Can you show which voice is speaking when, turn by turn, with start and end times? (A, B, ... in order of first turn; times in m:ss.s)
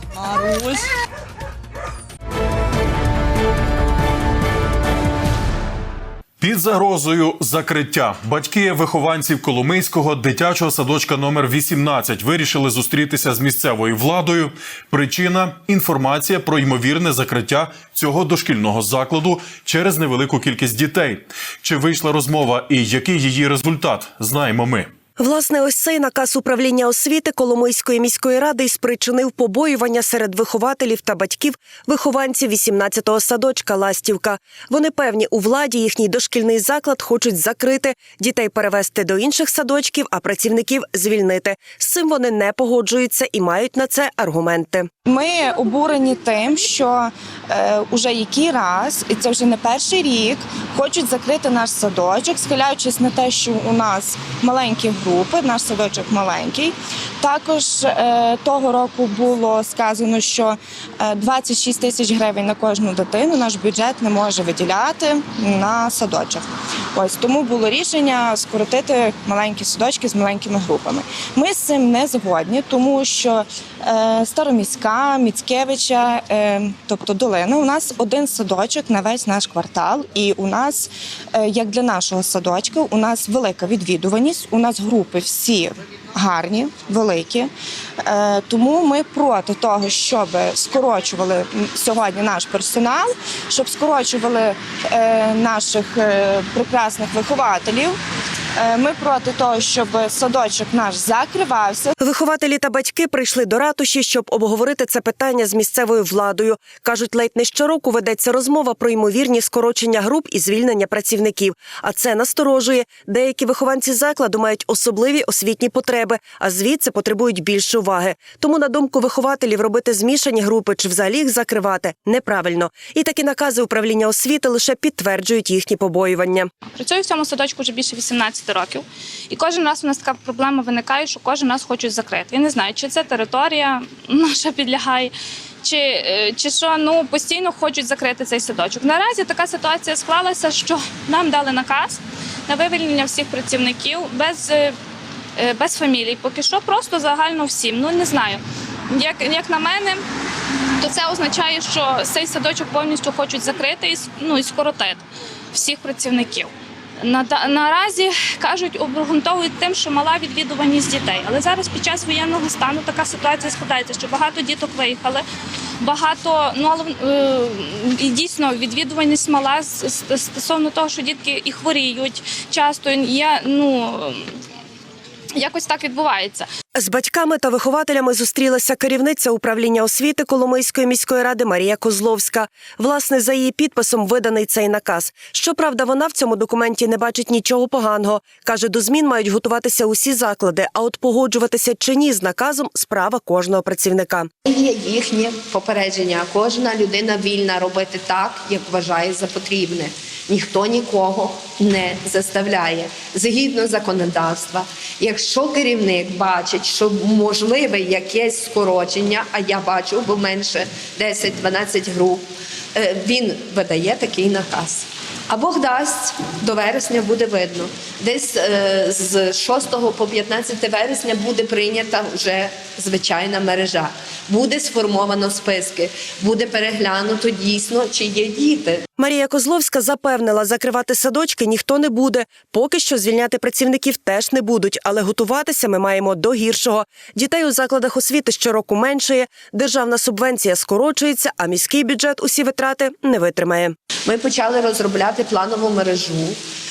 0:00.3-0:00.7 A
0:06.4-0:24.9 B
0:25.2-0:44.9 C
0:45.0-1:27.5 A
1:28.0-1:38.0 A
1:38.6-1:41.9 A
1:42.0-2:06.5 C
2:06.7-2:15.1 D
2:15.6-2:24.7 D
2:25.4-2:30.0 D
2:30.8-2:45.2 D
2:45.8-2:54.3 D
2:55.4-2:56.5 D
2:56.7-3:14.3 C
3:14.4-3:48.8 E
3:49.0-4:03.7 C
4:04.0-4:06.4 E